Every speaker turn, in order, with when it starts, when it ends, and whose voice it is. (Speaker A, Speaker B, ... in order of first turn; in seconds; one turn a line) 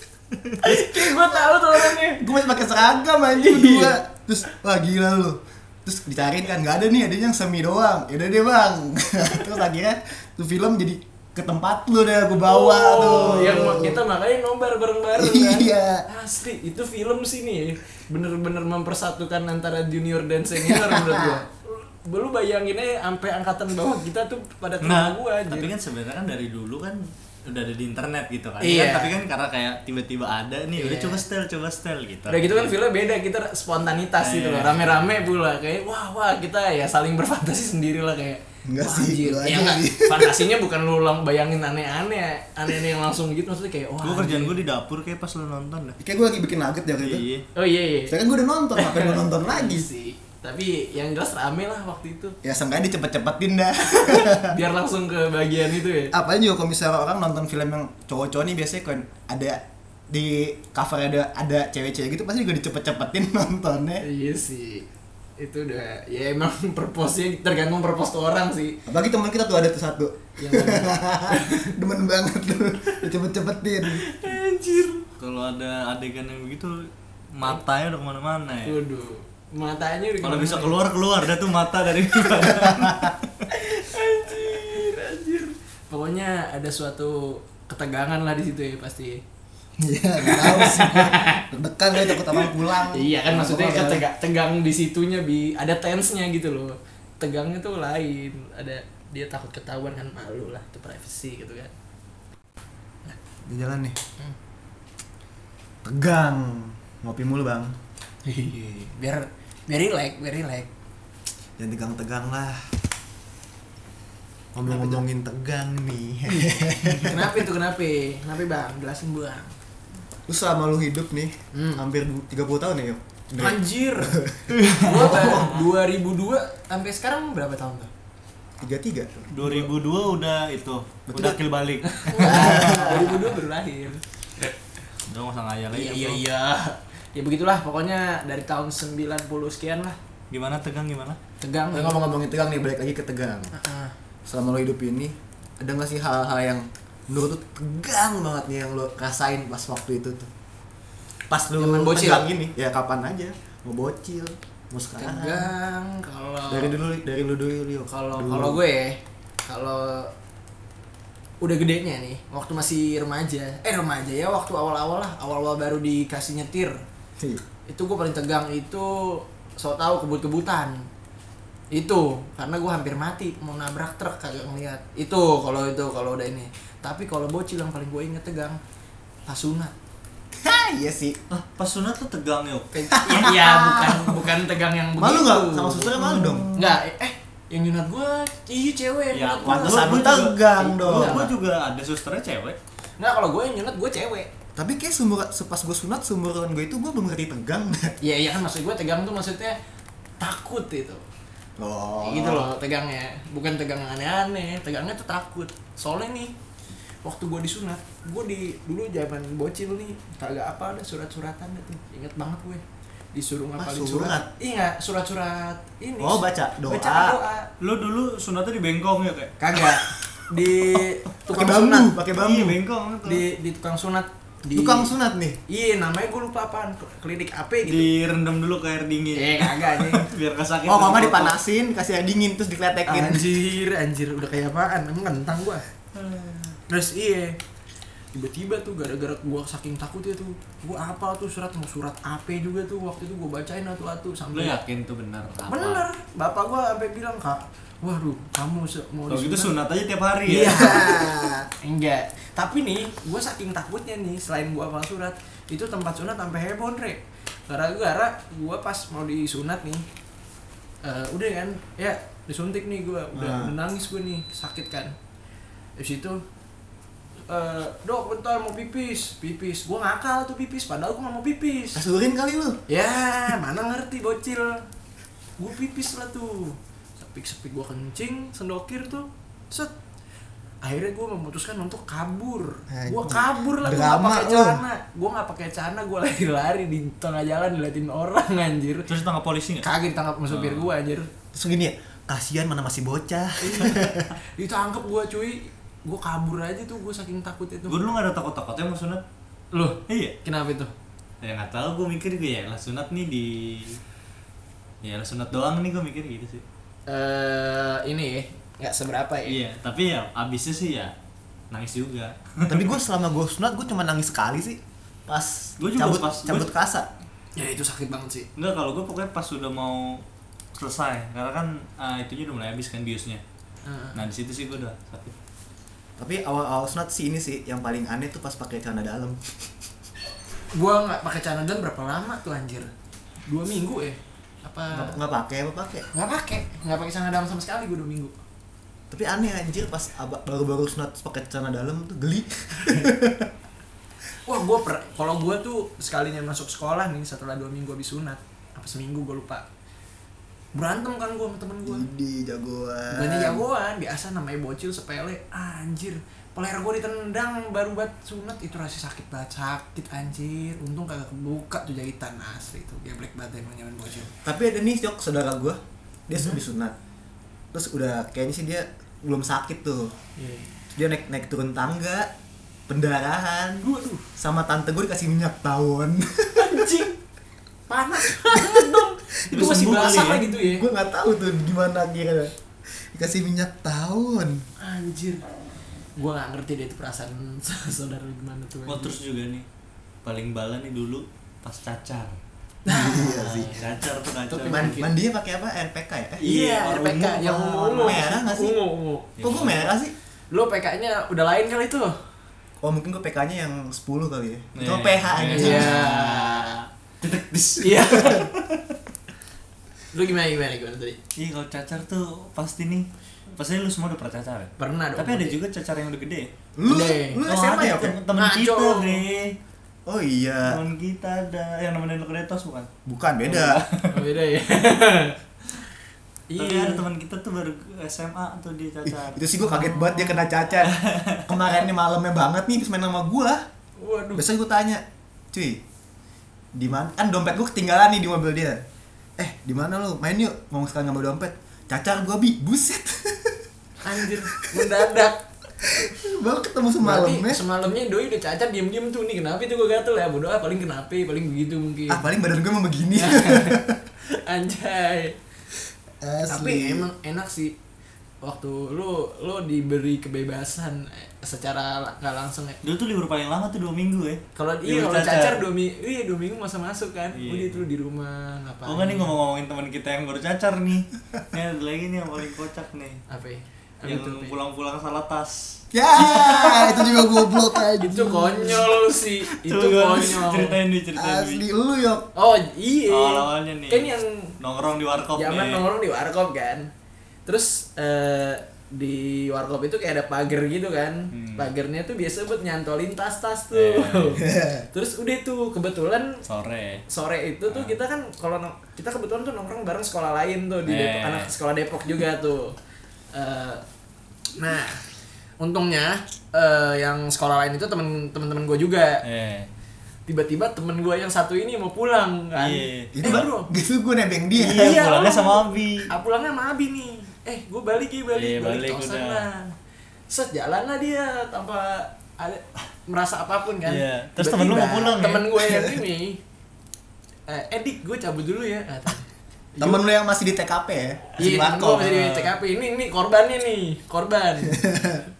Speaker A: 0.6-2.3
Speaker B: 1.9-14.0
Speaker A: 3.3-4.0
Speaker A: 12.4-25.7
Speaker C: 13.0-13.7
Speaker B: 15.1-16.0
Speaker B: 20.6-21.4
Speaker C: 24.8-32.7
Speaker A: 28.6-29.2
Speaker A: 30.8-31.2
Speaker A: 32.3-44.6
Speaker C: 34.2-35.3
Speaker B: 38.6-40.5
Speaker C: 44.0-46.0
Speaker B: 46.0-47.2
Speaker C: 47.0-47.4
Speaker A: 47.5-48.2
Speaker B: 48.1-49.9
Speaker A: 48.8-52.4
Speaker B: 52.4-54.5
Speaker A: 53.8-56.1
Speaker B: 56.1-64.0
Speaker A: 64.0-64.9
Speaker A: 65.4-68.8
Speaker B: 68.9-74.0
Speaker A: 70.4-71.7
Speaker A: 73.9-75.1
Speaker C: 75.2-78.8
Speaker A: 78.6-80.8
Speaker C: 80.2-83.3
Speaker B: 82.4-83.0
Speaker A: 83.5-89.2
Speaker B: 89.8-94.0
Speaker A: 90.2-101.7
Speaker B: 103.4-104.0
Speaker B: 105.8-107.7
Speaker A: 108.2-110.7
Speaker B: 111.6-112.7
Speaker B: 114.5-117.4
Speaker A: 114.7-115.0
Speaker A: 116.3-119.5
Speaker B: 120.3-125.5
Speaker A: 121.5-121.8
Speaker A: 123.4-127.9
Speaker C: 124.5-125.5
Speaker B: 128.6-129.3
Speaker C: 129.3-133.2
Speaker A: 129.4-129.7
Speaker B: 131.1-131.4
Speaker A: 131.8-134.0
Speaker B: 132.2-133.2
Speaker C: 135.0-136.2
Speaker A: 135.7-140.0
Speaker C: 140.3-141.2
Speaker A: 141.4-142.0
Speaker B: 141.7-143.5
Speaker A: 143.5-143.9
Speaker B: 144.2-150.3
Speaker B: 151.3-155.5
Speaker A: 151.6-152.2
Speaker A: 155.0-156.8
Speaker B: 156.5-158.6
Speaker A: 157.9-160.1
Speaker A: 161.4-166.8
Speaker A: 167.7-170.9
Speaker A: 171.7-178.6
Speaker A: 179.3-179.7
Speaker B: 180.4-181.2
Speaker C: 181.3-183.4
Speaker A: 182.7-191.3
Speaker B: 182.9-184.2
Speaker B: 185.0-186.7
Speaker C: 189.1-192.6
Speaker B: 189.4-191.3
Speaker A: 193.0-194.3
Speaker B: 194.6-197.9
Speaker A: 198.0-199.6
Speaker A: 200.2-201.0
Speaker B: 201.6-202.5
Speaker A: 202.0-206.3
Speaker A: 207.0-212.6
Speaker A: 213.1-217.5
Speaker B: 213.6-214.3
Speaker B: 216.0-217.2
Speaker C: 217.6-219.3
Speaker A: 219.4-221.9
Speaker B: 221.3-222.6
Speaker C: 222.2-223.2
Speaker A: 223.0-224.9
Speaker B: 224.5-225.4
Speaker A: 225.5-227.9
Speaker C: 227.6-231.3
Speaker A: 229.2-230.1
Speaker B: 230.7-233.4
Speaker A: 232.8-235.6
Speaker C: 235.9-236.6
Speaker A: 236.7-237.3
Speaker A: 238.1-244.6
Speaker C: 244.3-245.8
Speaker A: 245.5-249.5
Speaker C: 249.1-250.9
Speaker A: 250.3-259.8
Speaker B: 250.5-251.5
Speaker A: 260.8-264.9
Speaker B: 263.1-263.5
Speaker A: 265.8-266.2
Speaker A: 267.3-271.8
Speaker B: 271.7-272.6
Speaker A: 272.7-274.6
Speaker A: 275.4-279.7
Speaker A: 280.6-288.9
Speaker B: 282.7-284.6
Speaker C: 288.9-289.7
Speaker A: 289.6-291.1
Speaker C: 290.3-290.7
Speaker B: 291.3-294.1
Speaker A: 293.4-297.8
Speaker C: 297.7-299.0
Speaker A: 299.5-300.7
Speaker C: 299.9-300.1
Speaker C: 301.2-303.8
Speaker C: 304.8-306.4
Speaker A: 306.9-309.4
Speaker C: 309.3-310.9
Speaker C: 311.5-312.7
Speaker B: 312.5-316.9
Speaker C: 315.6-316.5
Speaker A: 317.4-318.3
Speaker C: 318.4-320.0
Speaker C: 320.6-323.2
Speaker A: 323.6-324.0
Speaker C: 323.9-325.1
Speaker B: 326.0-329.2
Speaker A: 330.5-332.7
Speaker A: 333.3-335.0
Speaker B: 334.7-335.9
Speaker A: 335.9-338.1
Speaker B: 338.9-343.3
Speaker A: 344.2-349.4
Speaker A: 350.5-351.9
Speaker B: 351.6-353.4
Speaker A: 352.9-364.1
Speaker B: 364.2-366.7
Speaker B: 367.5-369.9
Speaker A: 370.2-370.5
Speaker B: 370.8-372.1
Speaker B: 372.7-373.6
Speaker A: 373.6-374.0
Speaker B: 374.2-376.7
Speaker A: 376.4-377.0
Speaker A: 377.7-380.6
Speaker B: 378.1-378.9
Speaker C: 379.3-380.2
Speaker B: 380.4-382.3
Speaker B: 382.9-384.4
Speaker A: 384.6-385.2
Speaker A: 385.9-388.9
Speaker C: 388.7-389.4
Speaker C: 390.0-392.1
Speaker A: 392.6-393.6
Speaker B: 392.7-393.6
Speaker C: 393.0-394.8
Speaker A: 394.3-394.9
Speaker B: 394.4-396.3
Speaker A: 396.2-399.1
Speaker C: 396.2-398.0
Speaker B: 397.7-398.6
Speaker C: 399.2-399.6
Speaker B: 399.2-399.9
Speaker A: 400.3-402.0
Speaker B: 402.6-405.9
Speaker C: 404.5-408.6
Speaker A: 405.3-406.6
Speaker A: 407.6-408.2
Speaker A: 409.9-411.0
Speaker C: 411.2-416.3
Speaker A: 414.6-415.4
Speaker B: 416.6-418.0
Speaker A: 416.6-417.2
Speaker C: 417.2-419.3
Speaker A: 418.1-419.0
Speaker B: 419.9-420.6
Speaker C: 420.4-422.7
Speaker B: 422.9-423.6
Speaker A: 423.3-425.2
Speaker A: 426.3-426.8
Speaker C: 426.4-429.2
Speaker B: 428.9-433.4
Speaker A: 429.4-430.3
Speaker C: 430.6-431.2
Speaker A: 433.8-434.2
Speaker B: 434.1-435.6
Speaker B: 436.5-438.6
Speaker B: 439.2-443.4
Speaker A: 443.8-445.2
Speaker B: 445.6-447.4
Speaker A: 446.8-452.1
Speaker B: 451.9-453.8
Speaker A: 452.9-455.2
Speaker B: 456.0-456.9
Speaker A: 456.3-457.6
Speaker A: 458.2-462.6
Speaker C: 462.6-465.4
Speaker A: 464.4-469.1
Speaker C: 467.1-467.6
Speaker C: 468.6-473.0
Speaker A: 473.1-474.4
Speaker C: 473.8-477.3
Speaker B: 475.7-478.7
Speaker A: 477.8-480.6
Speaker C: 479.3-481.4
Speaker B: 480.9-482.1
Speaker A: 482.1-484.4
Speaker C: 482.9-485.6
Speaker A: 485.1-486.7
Speaker A: 487.2-496.2
Speaker C: 491.1-491.5
Speaker C: 493.5-494.2
Speaker B: 494.2-494.6
Speaker C: 496.2-496.8
Speaker A: 496.9-502.6
Speaker C: 497.5-497.7
Speaker C: 500.6-501.3
Speaker A: 503.1-503.6
Speaker A: 504.4-504.8
Speaker A: 505.4-509.0
Speaker C: 509.0-509.5
Speaker A: 510.1-513.5
Speaker C: 512.4-513.2
Speaker B: 512.9-514.8
Speaker C: 514.3-515.9
Speaker A: 514.5-519.5
Speaker C: 518.1-519.2
Speaker A: 520.1-526.2
Speaker C: 523.6-525.6
Speaker A: 527.3-529.8
Speaker B: 529.6-532.1
Speaker A: 531.2-534.8
Speaker B: 534.5-535.0